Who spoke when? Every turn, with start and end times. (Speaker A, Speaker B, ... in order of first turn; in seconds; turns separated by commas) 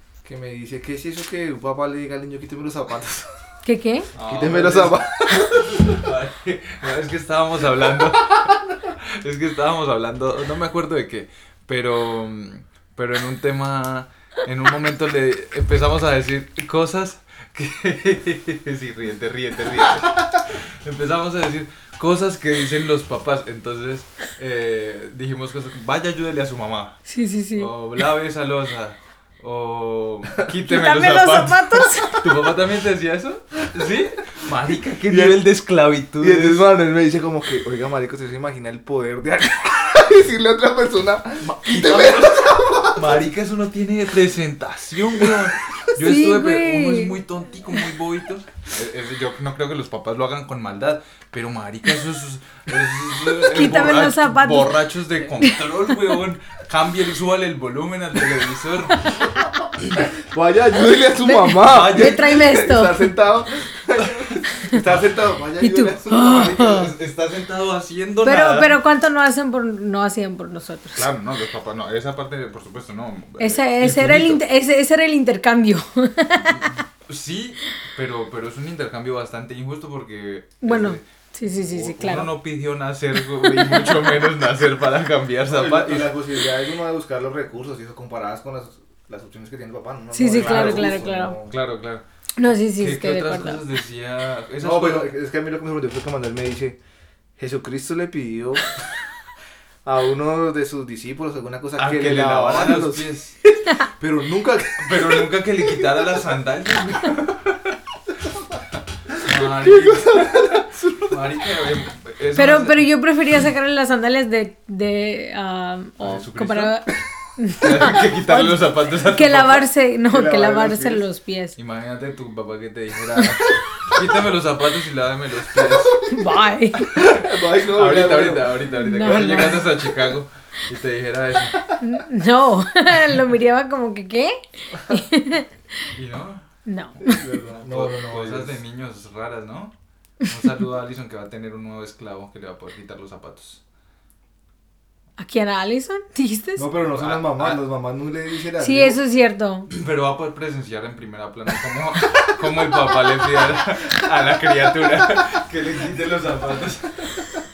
Speaker A: 0.2-3.5, Speaker B: 3.6-4.1, Speaker C: 4.1-27.0, Speaker A: 4.2-6.0, Speaker B: 27.1-27.7, Speaker C: 27.6-36.6, Speaker B: 30.6-32.3, Speaker A: 35.1-35.5, Speaker A: 36.2-43.2, Speaker C: 41.4-59.3, Speaker B: 46.0-47.2, Speaker B: 53.3-56.2, Speaker A: 60.3-66.9, Speaker B: 61.2-63.1, Speaker C: 61.6-62.3, Speaker C: 64.6-65.0, Speaker B: 65.6-66.9, Speaker C: 66.5-68.8, Speaker B: 68.2-71.1, Speaker C: 71.0-74.4, Speaker B: 73.4-76.8, Speaker C: 76.3-81.0, Speaker B: 80.6-82.3, Speaker C: 81.6-86.2, Speaker B: 83.2-84.2, Speaker A: 85.5-91.6, Speaker B: 90.1-91.4, Speaker C: 90.3-95.1, Speaker B: 92.4-93.7, Speaker A: 94.6-96.8, Speaker A: 97.4-98.8, Speaker A: 99.8-106.3, Speaker C: 101.8-103.3, Speaker C: 104.8-107.8, Speaker A: 109.1-111.4, Speaker C: 109.2-112.9, Speaker B: 112.4-121.6, Speaker C: 116.0-116.8, Speaker C: 117.6-119.7, Speaker A: 120.1-121.0, Speaker C: 121.6-126.0, Speaker A: 125.5-126.3, Speaker B: 126.1-126.9, Speaker A: 126.8-128.7, Speaker C: 126.9-131.7, Speaker B: 128.7-129.9, Speaker B: 131.8-135.5, Speaker C: 135.9-136.4, Speaker B: 136.7-137.2, Speaker A: 137.0-138.6, Speaker C: 137.5-143.6, Speaker B: 145.2-146.7, Speaker A: 146.6-149.0, Speaker C: 146.9-147.6, Speaker B: 148.6-149.7, Speaker C: 149.7-157.3